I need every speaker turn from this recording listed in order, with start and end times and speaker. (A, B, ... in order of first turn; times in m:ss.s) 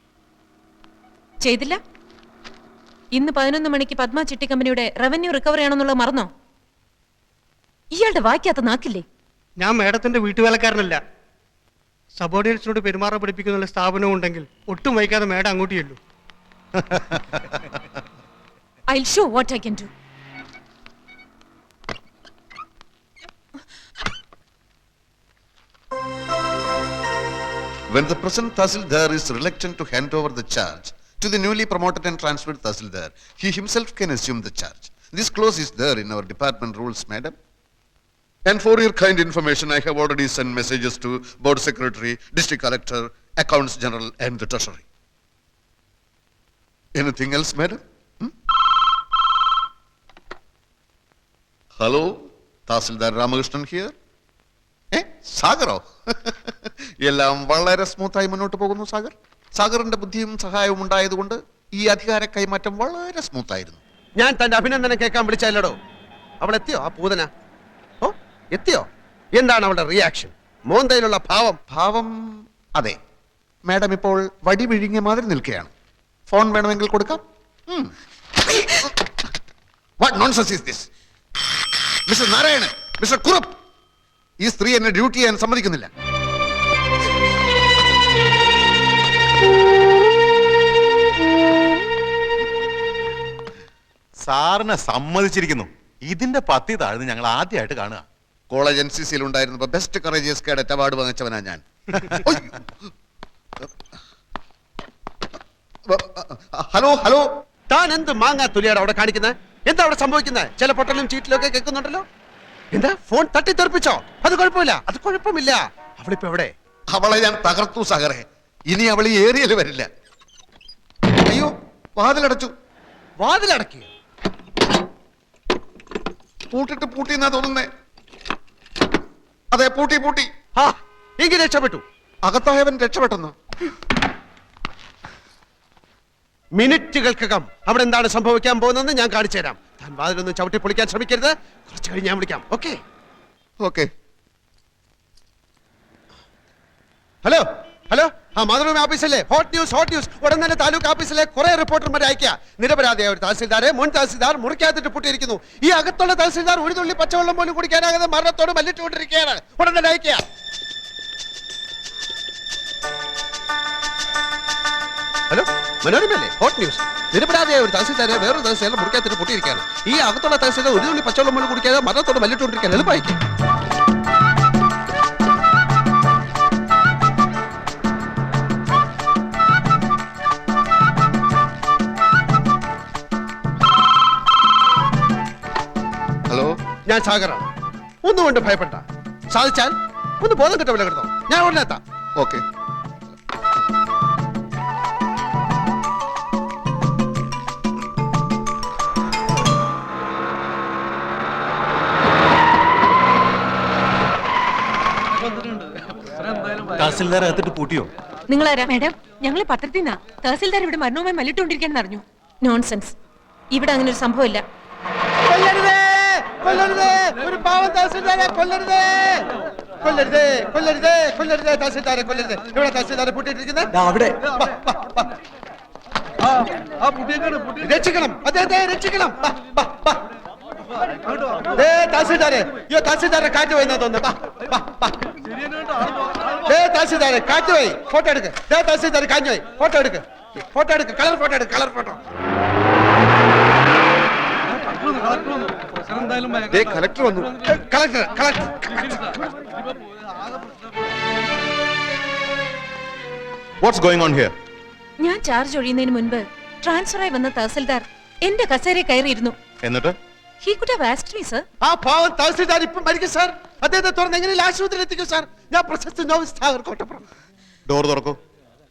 0:01.4-0:01.8 A
0:03.1-0:06.3 A
0:07.9-0:09.0 A
0:09.6-0:11.0 B
0:12.2-0:16.0 B
0:18.9-0:19.9 A
0:27.9-0:37.3 C
0:38.5-0:44.8 C
0:47.0-0:48.3 C
0:51.8-0:53.9 C
0:54.9-1:03.8 C
1:04.2-1:05.8 D
1:06.4-1:07.3 D
1:08.0-1:11.6 D
1:11.7-1:13.0 C
1:13.6-1:15.7 C
1:16.3-1:17.9 C
1:18.6-1:18.9 C
1:20.0-1:20.9 C
1:22.1-1:23.5 C
1:24.4-1:25.9 C
1:34.2-1:38.0 E
1:38.5-1:42.6 C
1:45.9-1:47.2 C
1:47.7-1:52.0 D
1:52.7-1:56.5 D
1:56.9-1:59.9 C
2:01.3-2:02.5 C
2:03.2-2:03.9 D
2:06.5-2:07.7 C
2:09.5-2:10.3 C
2:10.6-2:11.8 D
2:12.2-2:13.3 C
2:16.5-2:22.8 D
2:23.6-2:23.9 C
2:27.2-2:40.2 D
2:45.3-2:53.2 D
3:06.3-3:06.5 C
3:06.8-3:07.5 D
3:08.0-3:11.8 D
3:12.2-3:12.4 C
3:26.8-3:27.9 E
3:28.3-3:28.7 A
3:28.7-3:32.0 F
3:32.4-3:33.0 A
3:33.5-3:34.4 A
3:35.2-3:39.2 D
3:39.8-3:45.1 D
3:47.5-3:50.0 D
3:51.5-3:55.0 D
3:56.4-4:02.0 D
4:06.5-4:07.4 C
4:07.4-4:09.1 D
4:13.6-4:14.3 E
4:15.0-4:19.3 A
4:19.6-4:20.0 E
4:20.4-4:21.4 A
4:21.6-4:27.0 D
4:27.7-4:28.2 E